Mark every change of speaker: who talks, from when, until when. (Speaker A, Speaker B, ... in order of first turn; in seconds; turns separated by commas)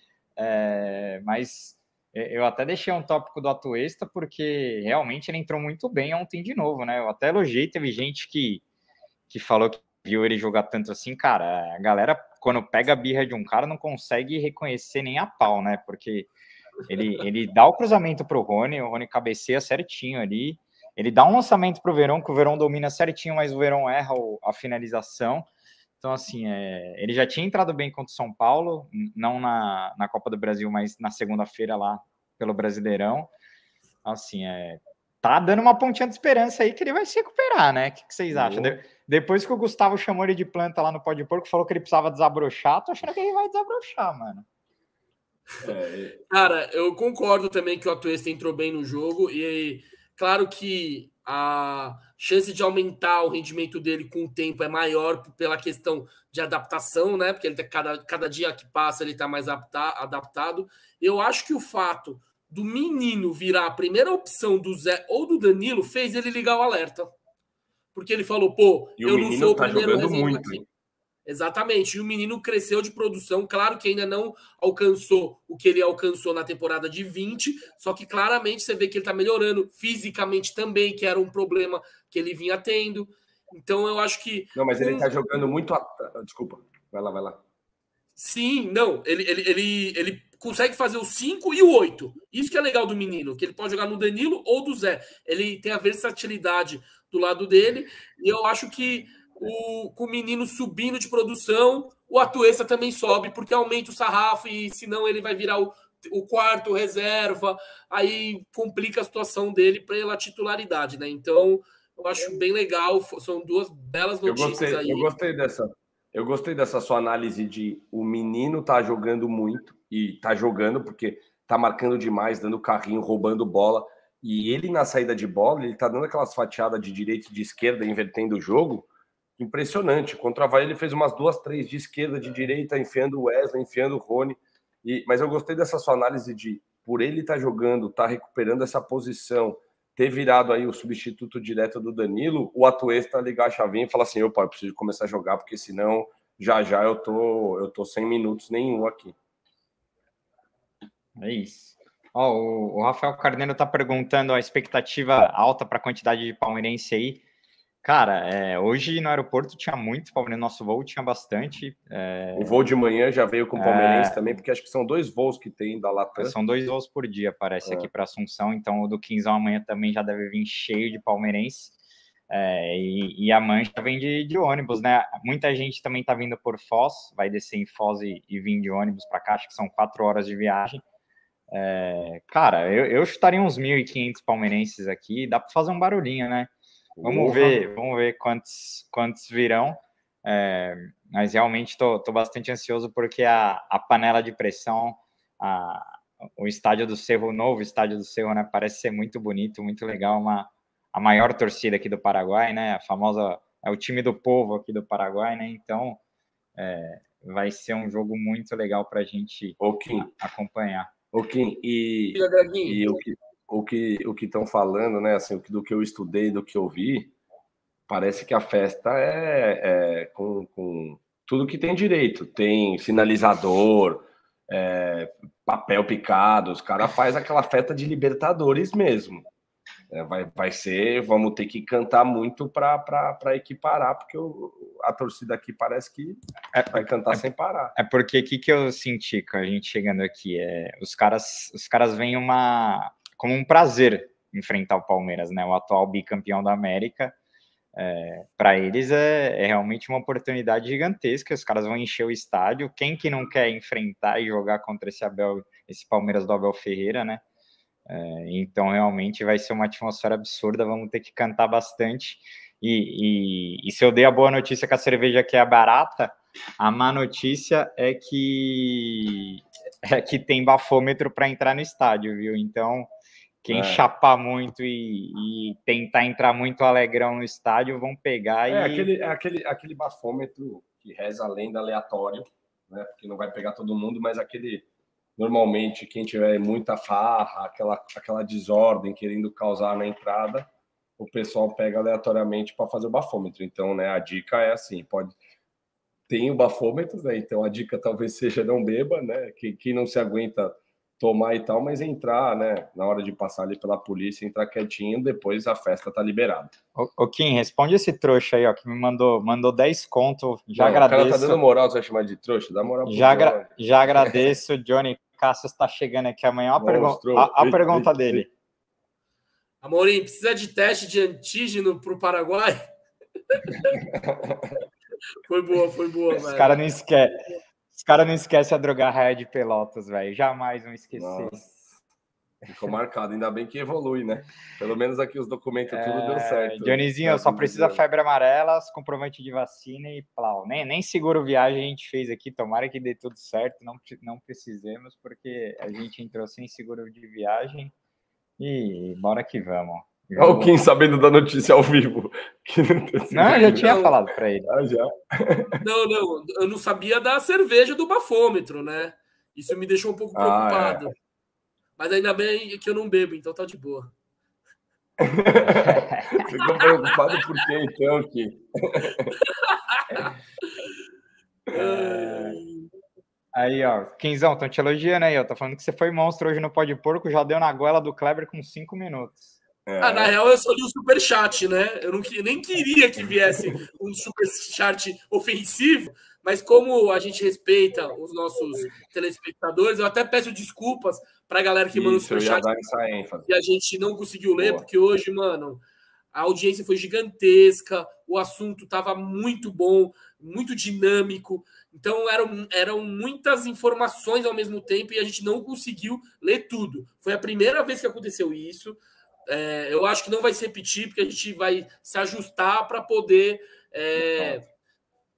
Speaker A: 0.4-8.6, Speaker A: 9.3-16.3, Speaker A: 16.9-25.5, Speaker A: 26.0-33.3, Speaker A: 34.0-44.5, Speaker B: 38.3-38.8, Speaker B: 45.6-46.1, Speaker C: 46.3-67.1, Speaker C: 67.9-70.6, Speaker B: 69.0-70.6, Speaker C: 71.3-85.1, Speaker B: 84.5-87.4, Speaker C: 88.2-115.1, Speaker B: 114.3-128.9, Speaker B: 129.4-149.2, Speaker A: 151.2-157.2, Speaker A: 157.8-162.6, Speaker B: 162.4-166.3, Speaker A: 163.6-164.4, Speaker A: 166.2-171.8, Speaker A: 172.3-180.8, Speaker A: 181.5-186.5, Speaker B: 186.9-187.6, Speaker A: 187.0-206.0, Speaker A: 206.6-210.9, Speaker B: 209.6-210.1, Speaker B: 211.1-217.1, Speaker C: 212.1-212.9, Speaker B: 217.9-229.3, Speaker B: 229.9-236.2, Speaker A: 236.5-237.2, Speaker B: 236.7-237.8, Speaker A: 237.8-247.1, Speaker A: 247.8-257.2, Speaker A: 257.9-272.9, Speaker A: 273.4-278.9, Speaker B: 273.5-273.8, Speaker B: 278.5-284.6, Speaker B: 285.2-295.2, Speaker B: 296.1-306.5, Speaker A: 306.8-311.4, Speaker B: 310.6-313.5, Speaker A: 312.9-318.3, Speaker B: 316.6-318.3, Speaker C: 319.6-322.7, Speaker C: 323.3-323.7, Speaker B: 323.6-324.6, Speaker C: 325.3-326.6, Speaker A: 326.3-327.1, Speaker A: 327.7-331.5, Speaker B: 330.9-331.4, Speaker B: 332.5-337.8, Speaker A: 335.7-347.7, Speaker A: 348.4-350.6, Speaker B: 350.2-353.8, Speaker A: 353.1-354.5, Speaker C: 353.2-353.9, Speaker B: 354.5-355.6, Speaker C: 355.6-360.9, Speaker B: 360.1-360.9, Speaker C: 361.8-363.9, Speaker B: 365.0-369.1, Speaker A: 365.5-366.2, Speaker C: 366.4-367.3, Speaker C: 369.2-370.1, Speaker C: 371.5-372.7, Speaker A: 371.5-372.4, Speaker A: 373.4-379.3, Speaker B: 379.6-380.1, Speaker C: 379.8-392.5, Speaker B: 383.2-383.6, Speaker B: 391.7-393.3, Speaker C: 393.3-395.6, Speaker B: 394.4-394.6, Speaker C: 396.1-414.4, Speaker B: 414.0-414.4